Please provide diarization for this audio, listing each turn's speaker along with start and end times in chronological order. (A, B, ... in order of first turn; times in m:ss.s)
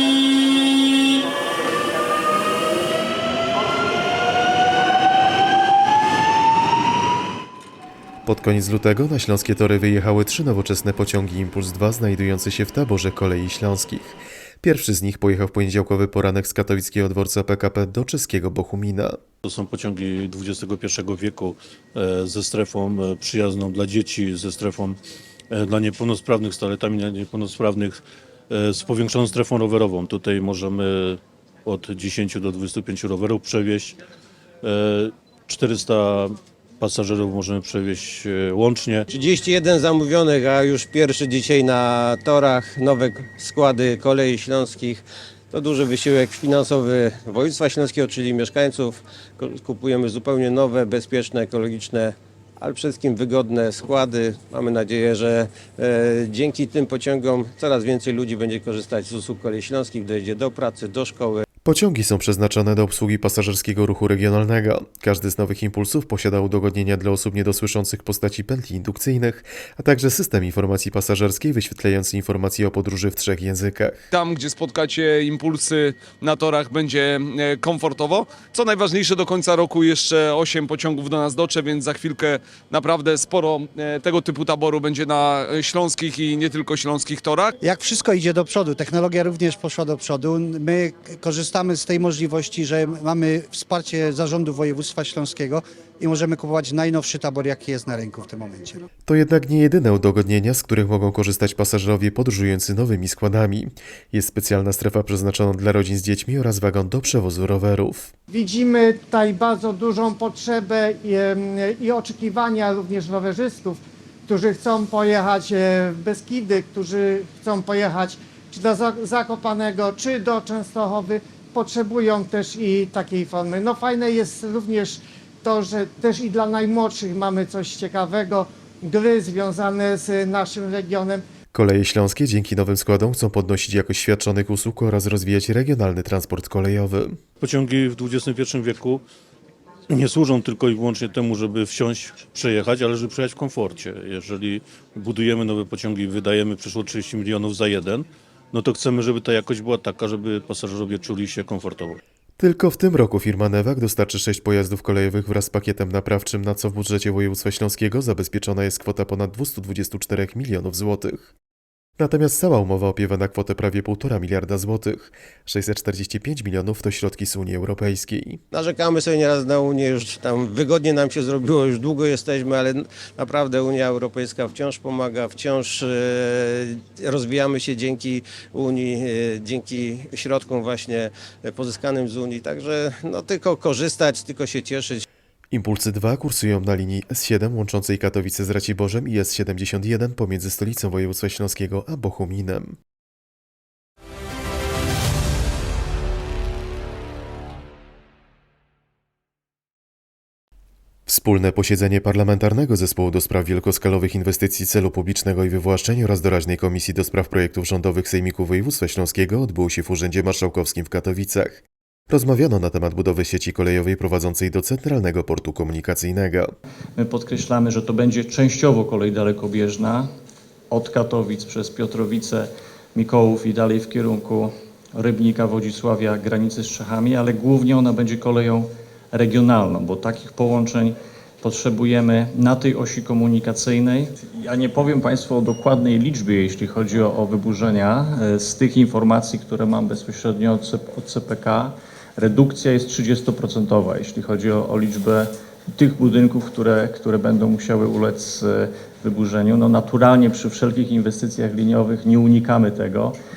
0:08.3-0:19.2 A
0:19.4-0:25.0 B
0:25.5-0:34.0 B
0:34.6-0:39.1 B
0:39.1-1:01.4 C
1:01.6-1:14.0 A
1:14.1-1:27.5 D
1:27.6-1:38.8 E
1:39.1-1:48.1 A
1:48.3-2:11.2 F
2:11.5-2:17.2 A
2:17.4-2:19.0 B
2:19.9-2:32.0 B
2:32.4-2:41.3 A
2:42.0-2:48.4 A
2:48.5-3:05.0 C
3:05.5-3:12.8 A
3:21.1-3:36.5 A
3:37.0-3:40.1 G
3:40.7-4:13.2 G